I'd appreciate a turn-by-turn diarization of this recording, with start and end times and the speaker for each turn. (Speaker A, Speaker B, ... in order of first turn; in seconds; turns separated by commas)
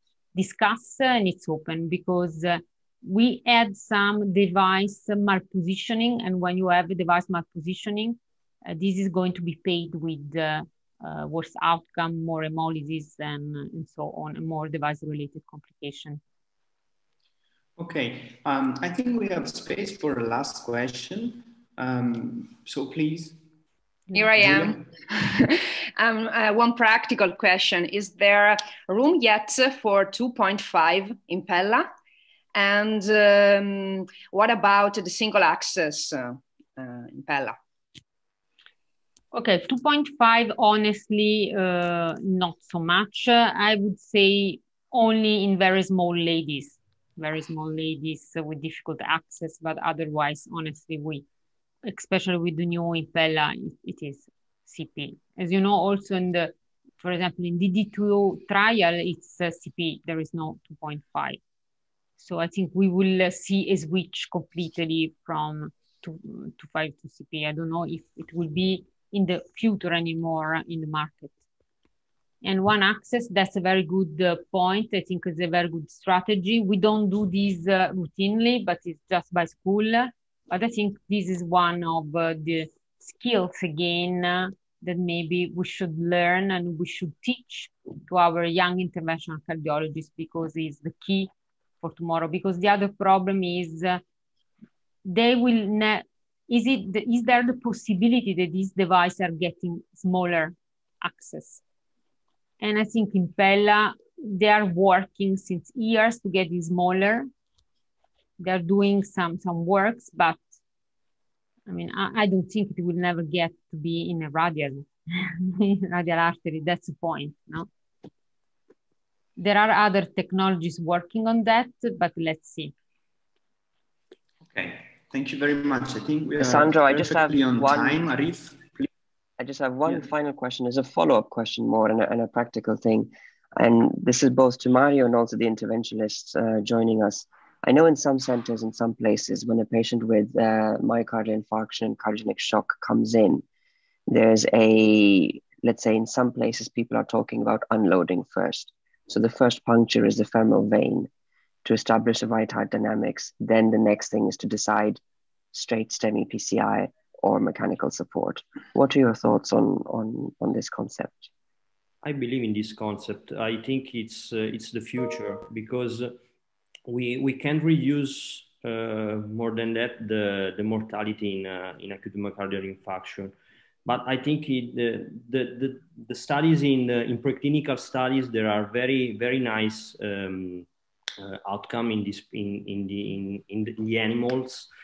Speaker A: 0.3-16.2, Speaker B: 17.8-23.4, Speaker C: 24.1-31.9, Speaker B: 24.4-24.8, Speaker C: 32.5-37.6, Speaker A: 39.3-51.2, Speaker A: 51.9-61.4, Speaker A: 62.2-71.4, Speaker A: 72.4-91.3, Speaker A: 91.8-94.0, Speaker A: 95.0-101.6, Speaker A: 102.6-107.3, Speaker A: 108.4-110.4, Speaker A: 111.7-117.7, Speaker A: 119.4-122.7, Speaker B: 124.4-128.9, Speaker D: 126.4-128.0, Speaker D: 129.4-143.4, Speaker D: 144.1-151.1, Speaker D: 151.7-155.0, Speaker D: 155.5-161.3, Speaker E: 162.0-166.2, Speaker E: 166.9-173.3, Speaker E: 173.9-180.7, Speaker E: 181.2-184.7